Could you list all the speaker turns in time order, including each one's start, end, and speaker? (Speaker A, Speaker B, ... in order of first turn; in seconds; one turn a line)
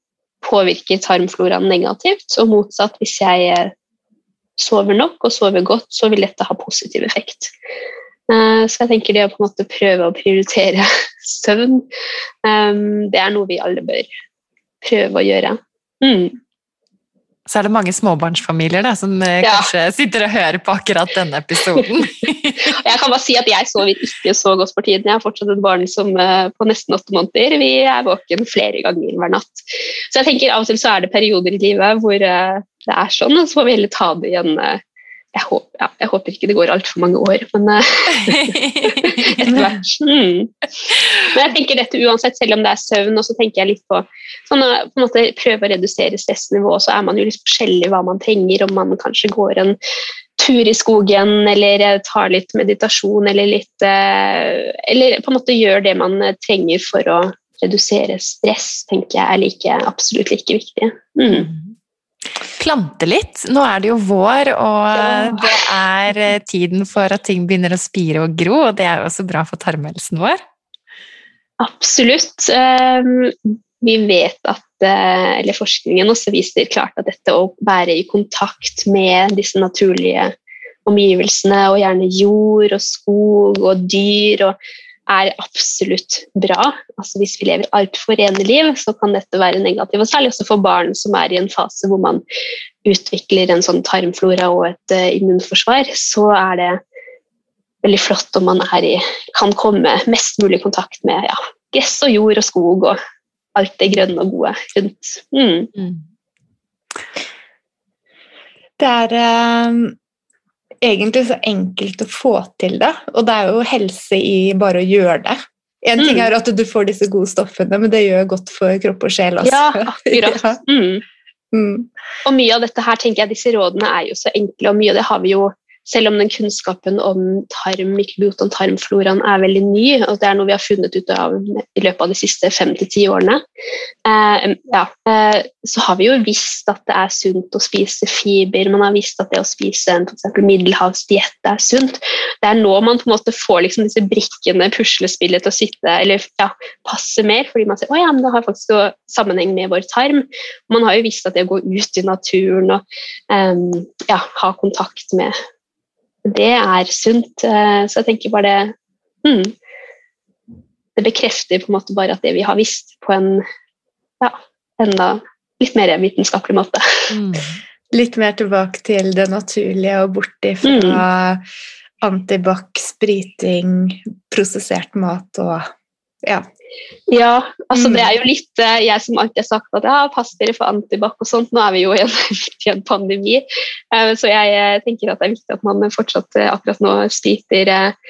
Speaker A: 0.4-3.7
Speaker A: 4.6-7.5
Speaker A: 8.3-11.8
Speaker A: 12.4-14.1
Speaker A: 14.8-16.4
Speaker B: 17.5-22.8
Speaker A: 19.4-19.7
Speaker A: 22.6-34.8
Speaker A: 35.3-49.8
Speaker B: 38.2-39.7
Speaker C: 39.5-39.7
Speaker A: 50.4-61.5
Speaker B: 61.3-61.7
Speaker B: 62.6-70.4
Speaker A: 64.9-65.7
Speaker A: 71.6-80.3
Speaker A: 80.8-84.5
Speaker A: 85.1-92.2
Speaker A: 92.8-96.8
Speaker A: 97.8-103.0
Speaker A: 103.5-105.7
Speaker B: 105.8-106.0
Speaker C: 108.8-110.0
Speaker C: 110.8-120.6
Speaker A: 116.0-116.3
Speaker A: 119.4-121.0
Speaker C: 121.5-121.9
Speaker A: 122.2-133.4
Speaker A: 134.0-155.3
Speaker A: 156.2-159.5
Speaker A: 160.9-163.4
Speaker A: 164.2-167.1
Speaker B: 167.1-167.6
Speaker C: 167.9-171.4
Speaker A: 170.6-171.0
Speaker C: 172.0-175.6
Speaker A: 177.1-187.9
Speaker C: 177.7-178.1